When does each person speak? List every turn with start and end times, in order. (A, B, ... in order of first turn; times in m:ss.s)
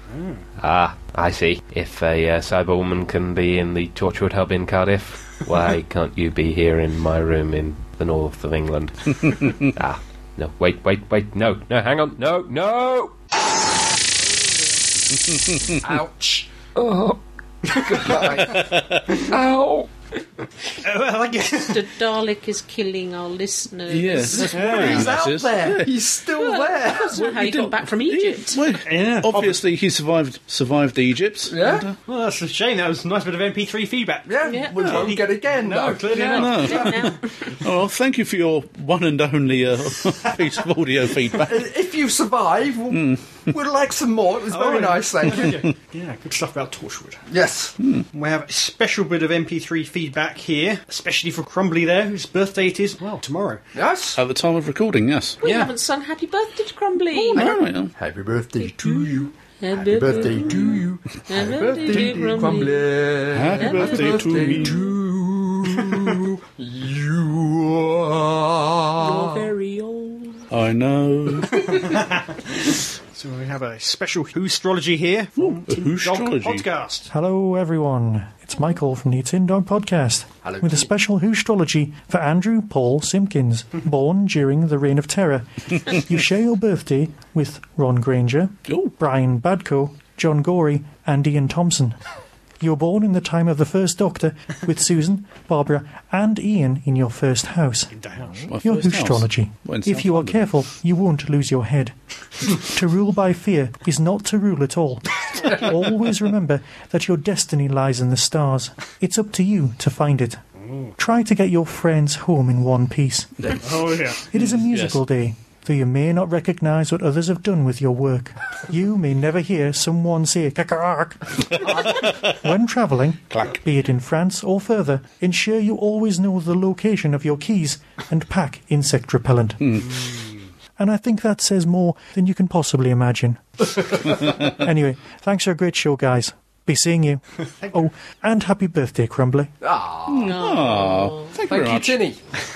0:00.1-0:00.4 A
0:00.6-0:13.1 B
0:15.8-0:17.1 C
0:17.7-0:18.7 C
0:18.2-0:19.0 D
0:19.3-0:19.8 C
0:20.8-0:21.8 A
0:21.6-0:24.5 E
0:23.9-0:25.9 D
0:24.3-0:27.2 C
0:24.5-0:25.1 A
0:26.3-0:28.6 E
0:27.1-0:32.0 D
0:28.8-0:29.6 A
0:31.5-0:31.8 C
0:32.0-0:36.8 A
0:34.2-0:37.1 C
0:34.4-0:34.8 E
0:34.8-0:35.1 D
0:36.1-0:37.5 E
0:36.3-0:41.6 D
0:41.3-0:45.6 C
0:42.9-0:43.2 D
0:44.5-0:47.2 A
0:47.3-0:47.7 C
0:47.8-0:48.0 D
0:48.1-0:53.6 A
0:53.7-0:54.2 C
0:54.2-0:55.4 D
0:55.4-0:57.5 E
0:57.2-1:09.5 C
0:57.3-0:57.9 D
0:58.6-1:02.9 E
1:03.3-1:04.8 D
1:03.5-1:04.9 E
1:09.0-1:10.5 E
1:10.5-1:11.7 D
1:11.8-1:17.1 A
1:15.4-1:16.6 D
1:17.1-1:32.0 F
1:20.4-1:20.9 C
1:32.6-1:37.9 F
1:37.9-1:38.5 A
1:38.5-1:40.5 D
1:38.6-1:50.4 F
1:50.7-1:50.9 A
1:51.0-1:53.6 F
1:53.6-1:54.2 A
1:54.3-2:09.6 F
1:54.3-1:55.0 D
2:09.6-2:09.9 D
2:10.8-2:17.2 F
2:17.7-2:19.5 F
2:19.6-2:20.4 C
2:20.1-2:22.0 D
2:20.2-2:21.3 E
2:21.5-2:22.2 C